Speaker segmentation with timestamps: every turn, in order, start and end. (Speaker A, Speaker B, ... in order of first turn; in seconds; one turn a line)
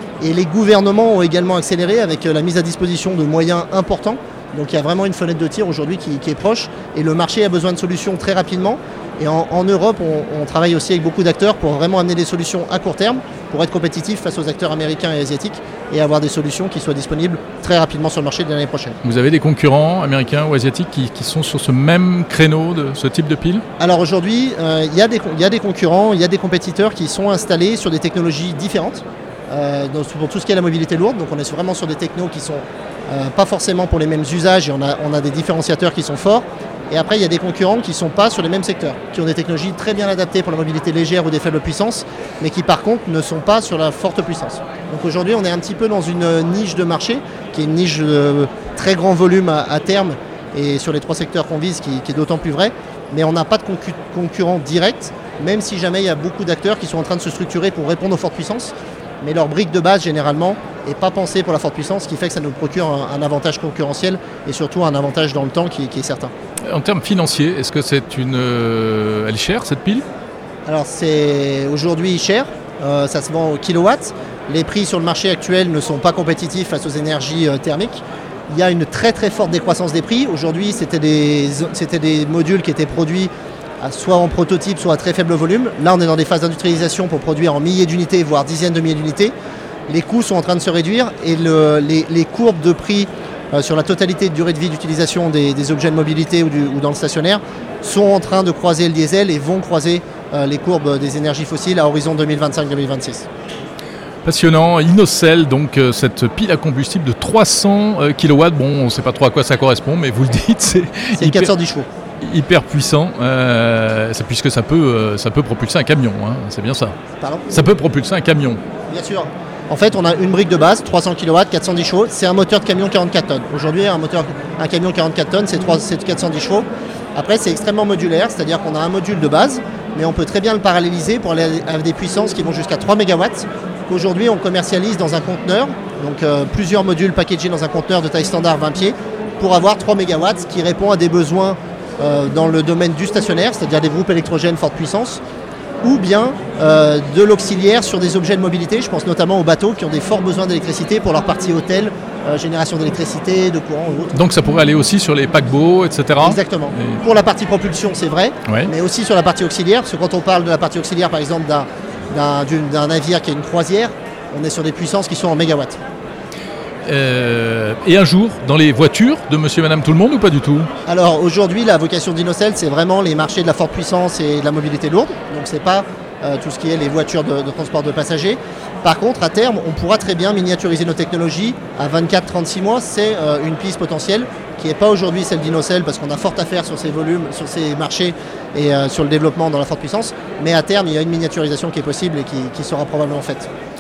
Speaker A: 0.2-18.9
Speaker B: 19.0-23.6
Speaker A: 23.8-66.3
Speaker B: 66.7-70.0
Speaker A: 70.7-89.3
Speaker A: 89.9-103.3
Speaker B: 104.2-111.5
Speaker A: 111.2-111.9
Speaker B: 112.2-116.9
Speaker A: 117.2-117.7
Speaker B: 117.5-118.6
Speaker A: 118.9-145.2
Speaker A: 145.8-154.1
Speaker B: 154.1-157.0
Speaker A: 156.2-165.8
Speaker B: 166.8-170.7
Speaker A: 170.9-193.5